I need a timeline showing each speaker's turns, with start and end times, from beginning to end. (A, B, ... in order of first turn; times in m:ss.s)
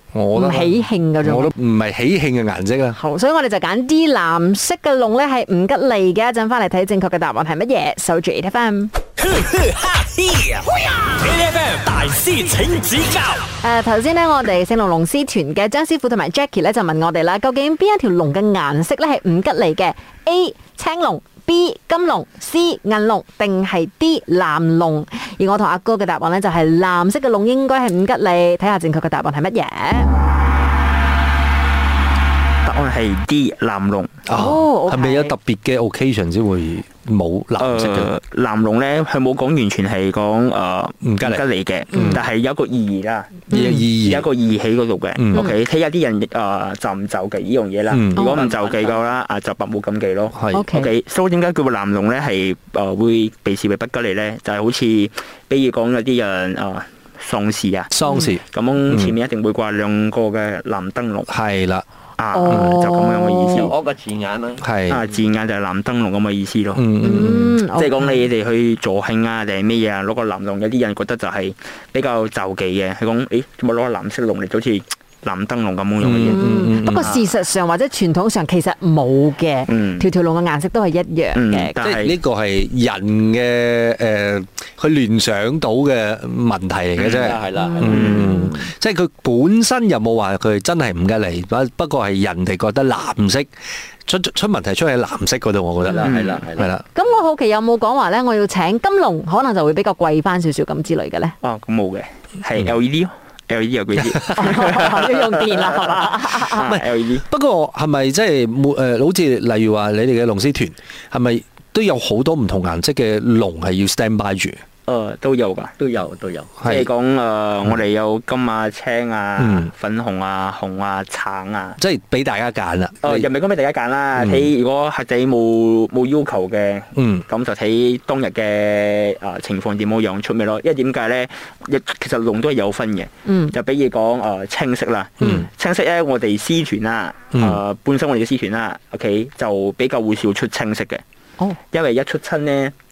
0:00.1-0:03.0 A
0:00.3-0:01.5 B
0:02.9-0:08.9 B
0:09.2-0:13.4 C
0:13.6-0:30.1 B
0:32.6-0:34.2 D
0:34.3-0:38.1 A
0:34.3-0:35.3 B
0:37.6-1:01.3 D
0:41.0-0:41.4 A
0:41.9-0:42.2 B
0:43.5-0:43.9 B
0:43.5-0:44.3 A
0:45.2-0:45.4 A
0:47.9-0:48.2 A
0:48.1-0:48.5 B
0:48.4-0:49.0 E
0:50.3-0:50.6 A
0:50.5-0:50.9 B
0:57.9-0:59.1 A
1:01.3-1:01.8 A
1:02.2-1:03.7 D
1:02.3-1:03.7 B
1:02.5-1:02.8 A
1:03.6-1:04.6 E
1:04.6-1:05.0 A
1:04.9-1:06.8 D
1:06.8-1:07.6 A
1:07.0-1:08.2 B
1:07.7-1:17.3 D
1:16.0-1:17.1 A
1:16.3-1:21.7 B
1:19.7-1:20.0 D
1:21.4-1:22.1 D
1:21.8-1:33.5 A
1:27.0-1:27.3 D
1:27.0-1:28.1 E
1:27.5-1:28.7 B
1:27.9-1:28.3 D
1:34.0-1:36.8 A
1:35.8-1:36.7 E
1:36.0-1:36.4 D
1:36.9-1:41.4 B
1:41.4-1:47.2 D
1:44.3-1:46.7 B
1:46.5-1:54.6 A
1:54.8-1:55.7 D
1:55.8-1:56.5 E
1:56.6-1:56.9 A
1:56.6-2:01.8 D
1:59.4-1:59.7 A
2:01.8-2:03.2 A
2:03.0-2:21.0 D
2:04.2-2:04.5 A
2:07.0-2:07.2 A
2:13.2-2:13.5 B
2:15.2-2:15.4 A
2:17.3-2:17.6 A
2:21.7-2:22.7 D